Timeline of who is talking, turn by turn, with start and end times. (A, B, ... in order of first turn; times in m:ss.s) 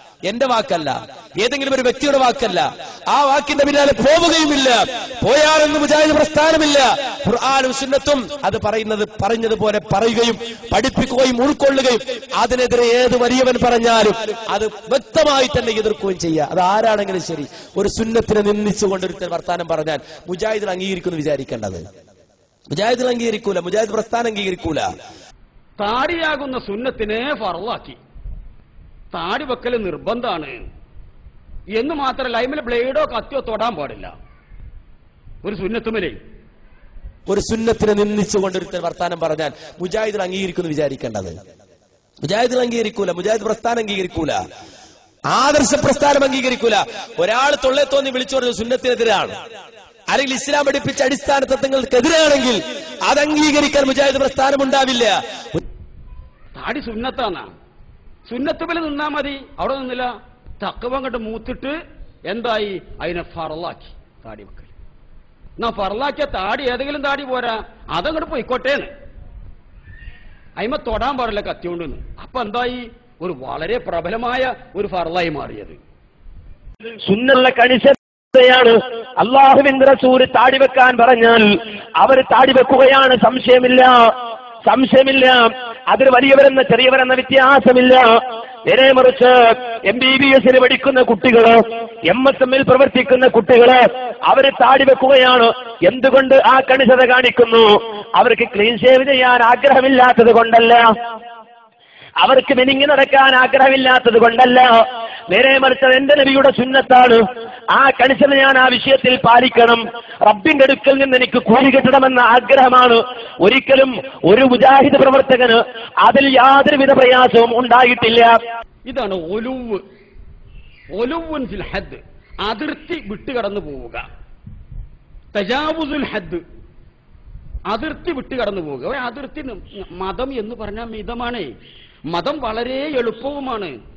0:00.2-0:21.8 A
0:22.7-0:24.9 A
0:25.8-0:28.0 B
0:29.1-0:30.6 B
0:31.7-0:34.1 B
0:35.4-0:36.2 B
0:37.3-0:41.3 A
0:42.2-0:44.4 A
0:45.3-0:49.3 A
0:50.1-0:55.6 A
0:56.6-0:57.5 B
0:58.2-1:01.8 B
1:02.3-1:04.7 B
1:05.6-1:08.9 B
1:10.6-1:15.8 B
1:17.0-1:21.4 C
1:22.0-1:24.0 C
1:24.6-1:28.1 C
1:28.7-1:29.3 C
1:29.8-1:40.8 C
1:42.2-1:44.7 C
1:45.3-1:47.2 C
1:47.7-1:58.4 C
1:58.8-1:59.8 B
2:00.9-2:04.0 B
2:05.3-2:06.4 B
2:07.7-2:11.5 B
2:12.1-2:13.8 B